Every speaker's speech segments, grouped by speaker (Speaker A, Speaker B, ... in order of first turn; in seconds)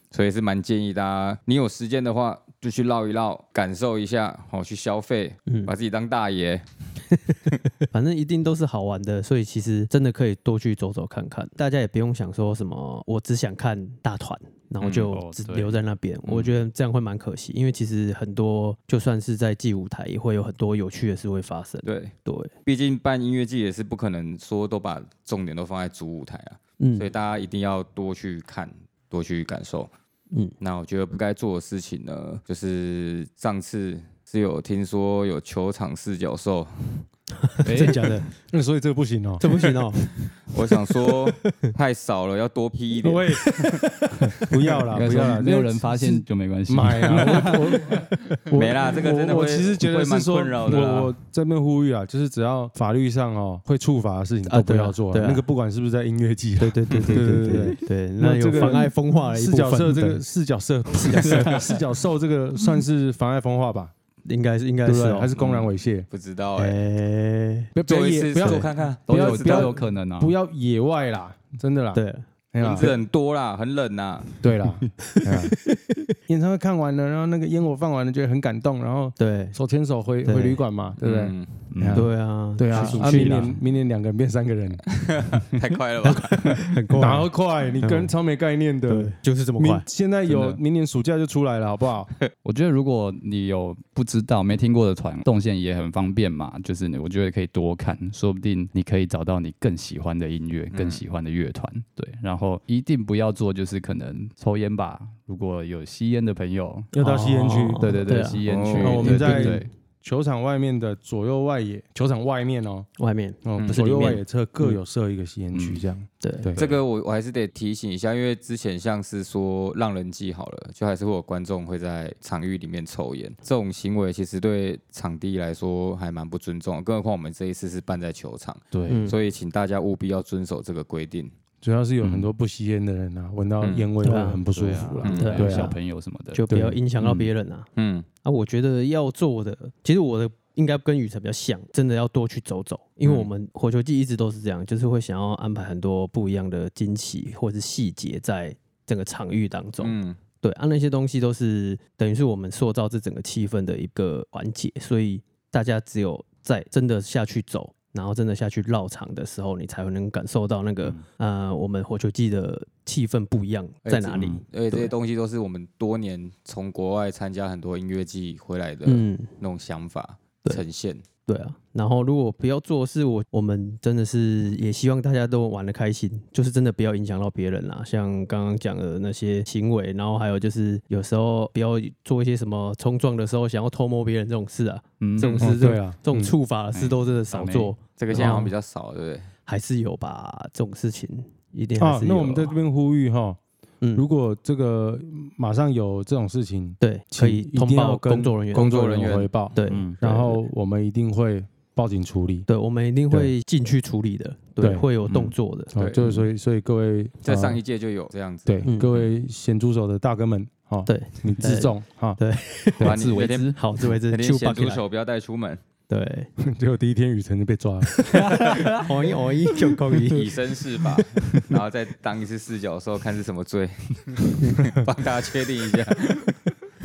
Speaker A: 0.1-6.7, 14.8-15.1, 21.8-22.1, 22.6-29.9, 30.6-37.1, 40.5-43.7, 47.1-47.5, 48.5-51.1, 65.4-66.8, 67.8-69.8, 72.6-74.4, 81.0-81.7, 84.9-86.6, 100.7-101.0, 108.5-109.1, 113.6-113.9, 116.6-131.3, 135.0-135.4, 137.8-138.1, 143.0-143.3, 149.8-150.2, 163.8-171.0, 188.0-189.3, 198.6-199.4, 205.8-206.3, 207.2-209.1, 212.8-215.6, 220.1-226.3
Speaker B: 5.5-5.7, 7.9-22.5, 26.8-27.1, 37.4-38.3, 39.4-40.2, 40.7-41.7, 54.5-55.4, 56.6-60.2, 61.0-61.7, 64.2-65.3, 66.5-67.7, 71.9-72.2, 75.5-76.0, 79.2-79.6, 80.2-80.6, 81.9-83.6, 86.0-88.1, 88.9-89.9, 107.0-109.6, 113.0-114.8, 116.2-116.5, 128.9-129.2, 134.0-134.4, 135.1-135.8, 136.3-137.7, 138.2-164.9, 168.8-169.3, 171.2-188.5, 189.5-192.6, 196.8-198.9, 199.5-200.4, 202.5-205.7, 208.6-208.9, 210.9-214.8, 215.9-216.3, 217.9-220.4
Speaker C: 15.0-15.8, 37.6-38.2, 44.9-48.0, 69.1-70.3, 81.7-82.1, 82.7-83.6, 90.2-90.6, 92.4-106.9, 107.8-109.7, 115.5-115.9, 116.5-116.8, 128.7-129.1, 132.0-132.3, 134.5-136.4, 137.0-137.3, 185.0-185.8, 186.7-188.4, 199.6-200.0, 205.1-205.3, 212.8-213.6, 218.4-218.9
Speaker D: 38.5-39.5, 43.0-63.9, 64.8-66.1, 67.8-72.0, 72.5-72.9, 74.4-75.6, 76.3-84.9, 87.0-92.1, 106.9-108.1, 108.8-112.9, 113.4-116.6, 131.6-135.7, 136.5-136.8, 185.4-186.3, 191.8-193.4, 193.9-202.5, 204.6-204.9, 205.7-207.6, 208.4-212.2, 216.4-218.2